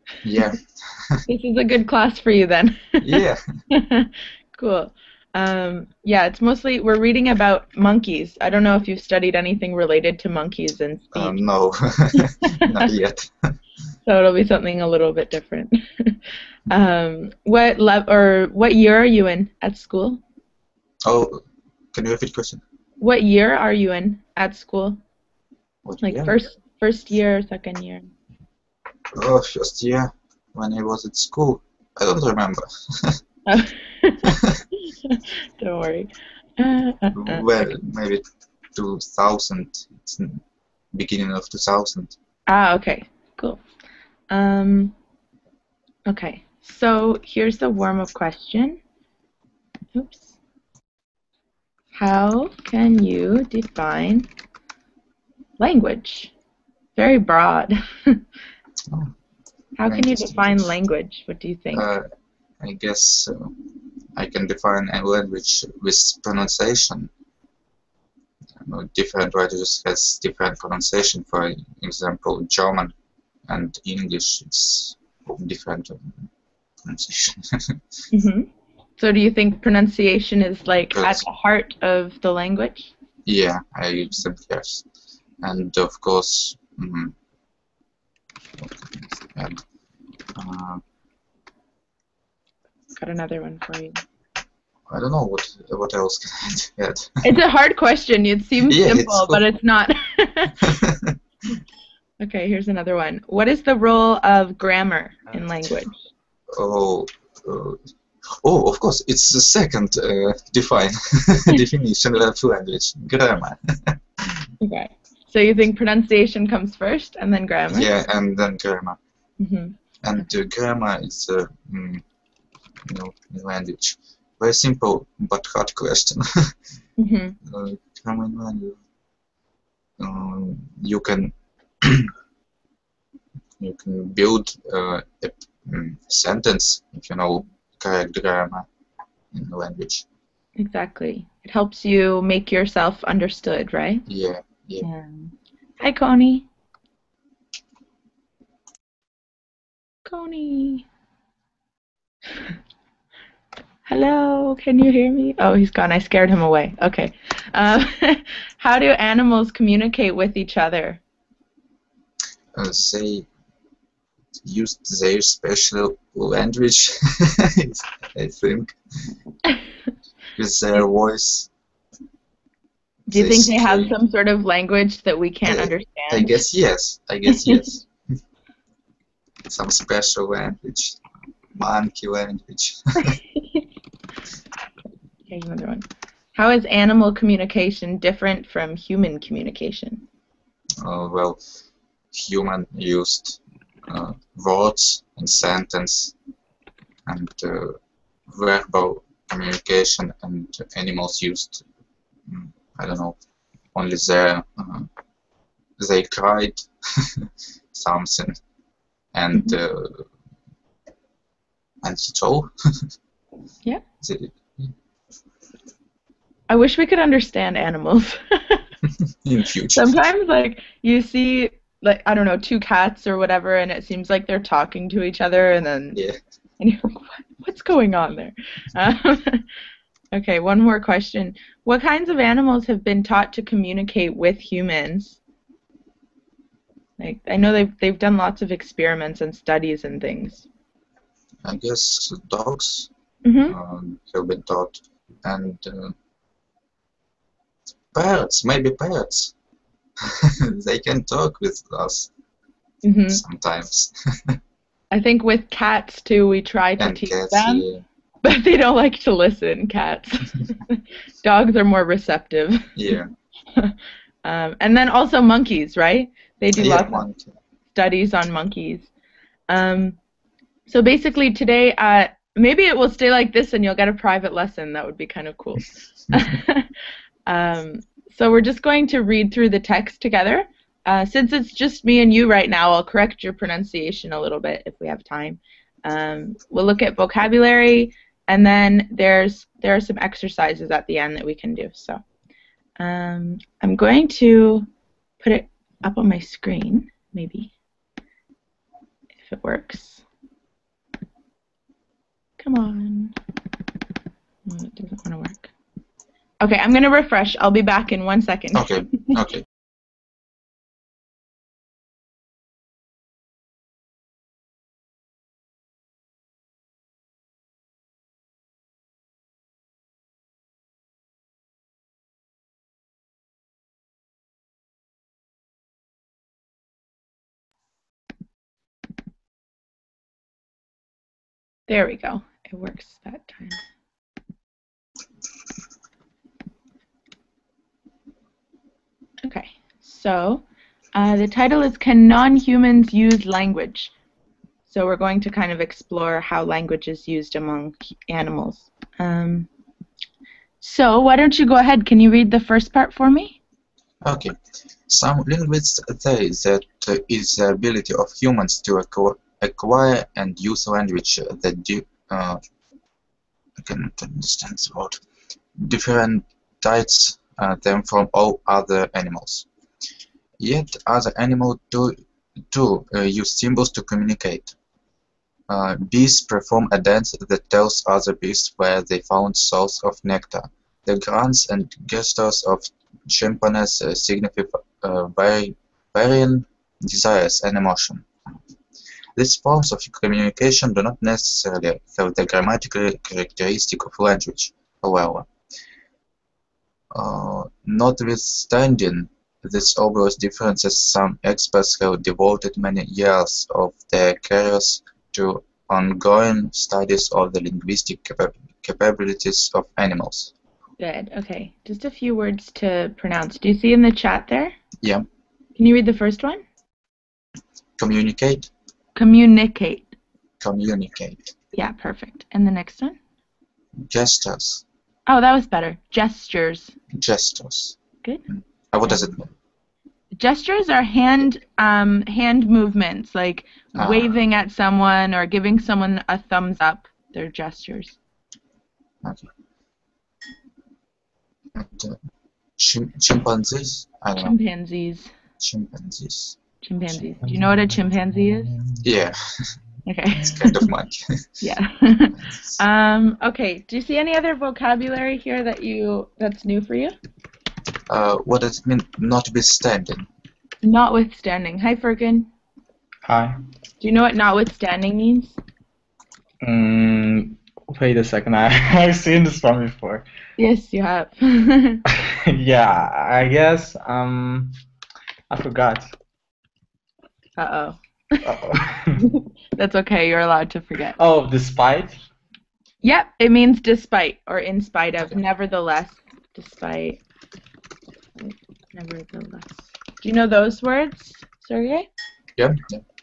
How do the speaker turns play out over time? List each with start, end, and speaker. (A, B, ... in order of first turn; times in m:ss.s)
0:00.2-0:01.2 A
0:01.3-0:11.4 B
0:03.0-0:03.4 A
0:11.2-0:13.6 A
0:12.2-0:12.8 B
0:14.1-0:20.2 B
0:21.0-0:21.4 A
0:21.9-0:22.6 A
0:23.0-0:25.0 B
0:25.8-0:26.4 A
0:26.0-0:28.1 B
0:29.1-0:33.2 A
0:33.5-0:37.7 B
0:34.3-0:34.6 A
0:37.1-0:38.2 A
0:38.8-0:40.4 A
0:40.9-0:42.2 A
0:42.5-0:43.6 B
0:44.3-0:44.9 B
0:46.1-0:48.8 B
0:50.0-0:50.4 B
0:52.0-0:54.3 B
0:55.6-0:56.3 B
0:57.0-0:58.2 B
0:59.8-1:01.8 B
0:59.9-1:00.7 A
1:01.7-1:02.0 A
1:02.6-1:03.6 A
1:04.2-1:07.1 A
1:08.6-1:12.9 A
1:13.5-1:16.3 A
1:16.8-1:17.8 A
1:18.1-1:22.9 B
1:21.0-1:21.2 A
1:23.3-1:24.8 A
1:25.4-1:27.1 A
1:28.6-1:29.6 A
1:30.4-1:30.8 A
1:33.0-1:34.0 B
1:34.9-1:37.2 A
1:37.2-1:40.8 B
1:38.7-1:39.4 A
1:40.6-1:41.2 A
1:42.2-1:46.0 B
1:46.5-1:47.8 A
1:48.4-1:54.0 A
1:54.6-1:57.9 B
1:57.7-1:59.0 A
1:59.4-2:00.2 B
2:00.0-2:02.0 A
2:02.9-2:06.6 A
2:07.0-2:07.4 B
2:07.4-2:08.8 A
2:10.0-2:12.1 A
2:13.6-2:18.7 A
2:19.3-2:20.0 A
2:20.6-2:24.0 B
2:24.1-2:24.9 A
2:24.8-2:26.5 B
2:30.0-2:30.9 B
2:33.9-2:41.0 B
2:42.6-2:43.3 A
2:44.4-2:48.8 A
2:50.4-2:51.5 A
2:53.1-2:56.4 B
2:53.1-2:53.9 A
2:55.4-2:57.9 A
2:57.4-2:57.6 B
2:59.5-3:01.0 A
3:01.6-3:03.2 A
3:05.3-3:10.0 B
3:10.8-3:11.4 A
3:12.1-3:16.1 A
3:17.1-3:17.8 A
3:18.3-3:21.6 A
3:22.3-3:23.2 A
3:23.8-3:24.9 A
3:25.8-3:28.4 A
3:29.1-3:30.1 A
3:31.8-3:32.5 A
3:34.0-3:34.7 A
3:36.5-3:38.6 B
3:39.2-3:39.9 A
3:39.8-3:46.0 B
3:46.6-3:49.4 B
3:50.1-3:55.2 B
3:57.0-4:00.5 B
4:01.4-4:02.9 A
4:03.2-4:03.6 B
4:03.5-4:06.0 A
4:07.9-4:09.3 A
4:10.0-4:12.1 A
4:12.8-4:13.2 B
4:13.1-4:14.4 A
4:14.9-4:17.6 B
4:16.8-4:17.8 A
4:18.2-4:22.8 B
4:22.8-4:23.1 A
4:23.6-4:27.0 B
4:26.6-4:27.4 A
4:27.8-4:28.9 B
4:29.5-4:30.0 B
4:30.7-4:36.7 B
4:37.3-4:52.0 B
4:52.8-4:54.7 B
4:55.2-4:57.5 B
4:59.2-5:00.0 B
5:02.4-5:03.2 B
5:04.5-5:05.5 B
5:06.4-5:09.2 B
5:08.6-5:09.4 A
5:31.7-5:33.6 B
5:39.2-5:40.4 B
5:41.0-5:43.9 B
5:44.7-5:49.5 B
5:50.6-5:53.4 B
5:54.0-5:54.4 A
5:54.9-6:02.4 A
6:03.6-6:05.0 A
6:05.6-6:09.5 A
6:10.4-6:12.0 A
6:12.5-6:14.5 A
6:15.5-6:28.1 A
6:29.2-6:35.3 A
6:36.9-6:50.3 A
6:50.8-6:54.5 B
6:55.6-6:56.4 B
6:57.8-6:58.5 A
6:59.0-6:59.9 B
7:00.4-7:01.4 A
7:01.5-7:03.0 B
7:03.8-7:04.6 A
7:05.1-7:06.7 B
7:06.9-7:07.8 A
7:08.3-7:09.3 A
7:10.1-7:18.0 B
7:13.8-7:14.1 A
7:19.0-7:19.3 A
7:21.6-7:22.0 A
7:22.6-7:24.4 A
7:24.2-7:25.1 B
7:25.4-7:26.4 A
7:26.6-7:28.5 B
7:27.2-7:28.8 C
7:28.8-7:29.5 A
7:29.9-7:30.7 B
7:30.2-7:31.4 A
7:31.4-7:36.9 B
7:32.2-7:32.6 A
7:37.9-7:40.1 A
7:40.6-7:42.3 B
7:43.1-7:43.4 C
7:43.8-7:45.4 B
7:46.4-7:50.1 C
7:50.4-7:51.8 B
7:51.9-7:54.5 C
7:55.3-7:55.9 C
7:57.4-7:58.3 B
7:58.2-7:59.0 C
7:59.0-8:01.0 B
8:01.0-8:02.0 C
8:02.8-8:07.0 B
8:08.2-8:11.9 B
8:12.4-8:12.8 A